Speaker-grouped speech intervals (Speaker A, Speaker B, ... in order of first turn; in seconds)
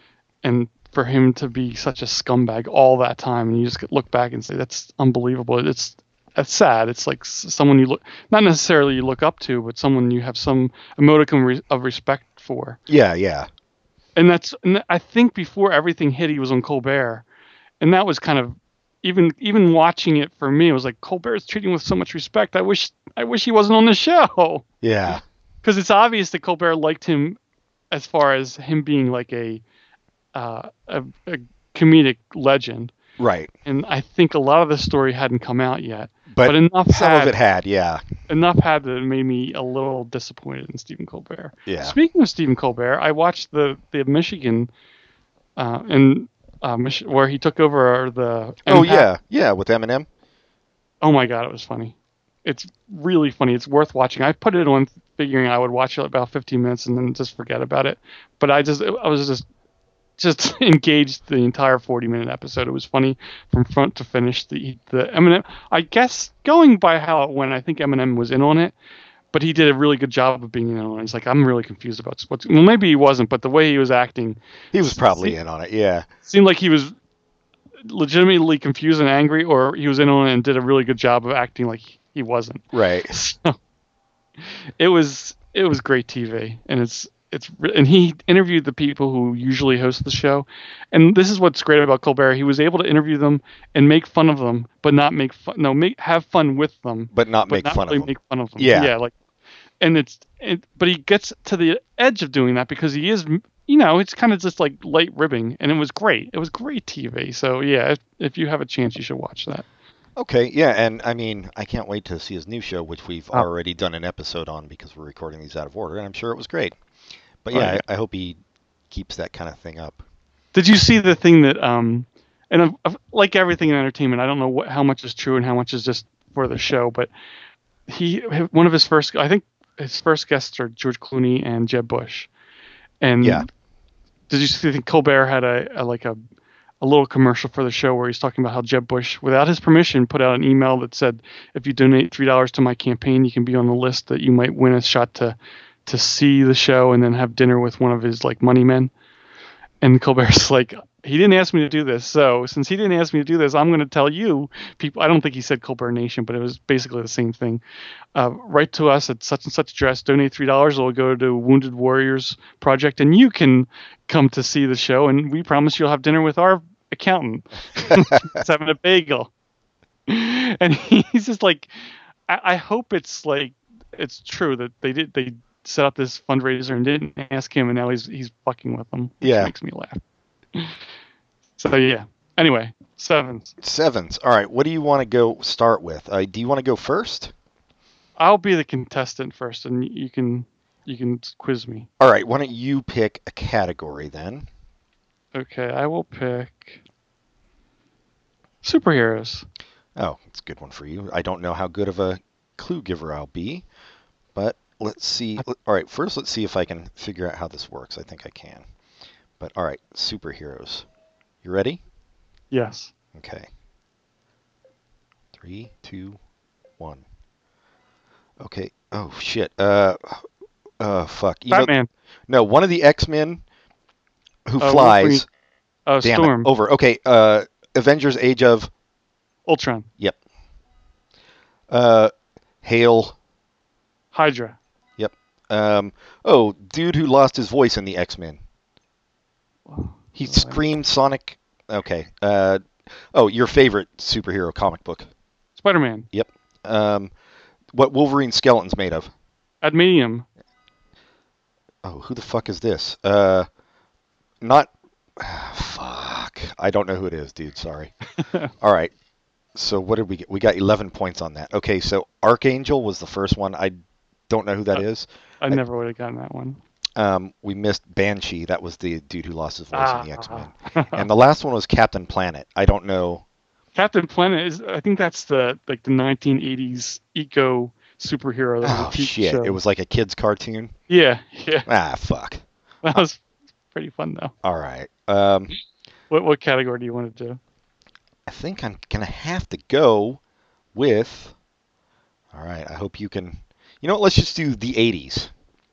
Speaker A: 0.4-12.8, 14.2-17.2, 17.8-27.4, 27.9-29.6, 30.3-32.9, 33.6-37.4, 38.3-44.7, 45.6-49.1, 51.0-59.4, 60.2-68.7, 69.3-75.3, 76.2-76.9, 77.8-83.6, 84.4-99.1, 99.8-109.7, 117.5-117.8, 120.5-127.1, 127.9-132.3, 133.0-133.4, 134.3-136.2, 136.8-148.9, 149.8-157.6, 158.1-169.3, 170.1-171.7, 172.3-180.0, 181.6-183.5, 188.2-191.9, 195.3-196.8, 198.6-199.4, 212.5-212.9, 221.5-221.9, 224.6-225.2, 225.9-226.5, 229.5-229.9, 234.1-234.6, 239.7-240.6, 245.6-246.1, 249.6-250.2, 258.2-258.5, 265.4-266.6, 269.7-271.1, 273.7-279.6, 280.9-281.7, 282.8-283.2, 283.7-284.3, 286.1-287.4
Speaker B: 12.9-13.5, 24.8-25.2, 33.2-33.5, 36.3-38.0, 41.6-42.0, 48.6-50.1, 74.7-76.1, 82.7-83.1, 97.1-98.9, 110.2-116.8, 117.4-118.4, 118.9-120.0, 167.9-168.2, 179.2-179.5, 183.6-187.3, 192.0-194.5, 199.9-203.6, 204.3-208.7, 209.4-210.8, 211.4-211.8, 213.1-213.5, 215.3-216.2, 216.8-217.0, 218.4-220.2, 220.8-221.7, 222.3-223.4, 224.4-225.2, 226.0-228.7, 231.7-232.1, 232.6-233.2, 235.0-238.4, 240.2-245.1, 246.1-247.1, 247.7-249.1, 251.8-253.5, 254.4-257.9, 258.6-258.9, 259.5-263.8, 264.3-265.6, 267.0-273.2, 278.6-280.7, 281.7-283.0, 284.4-285.5, 288.2-290.2, 290.7-291.3, 292.3-295.3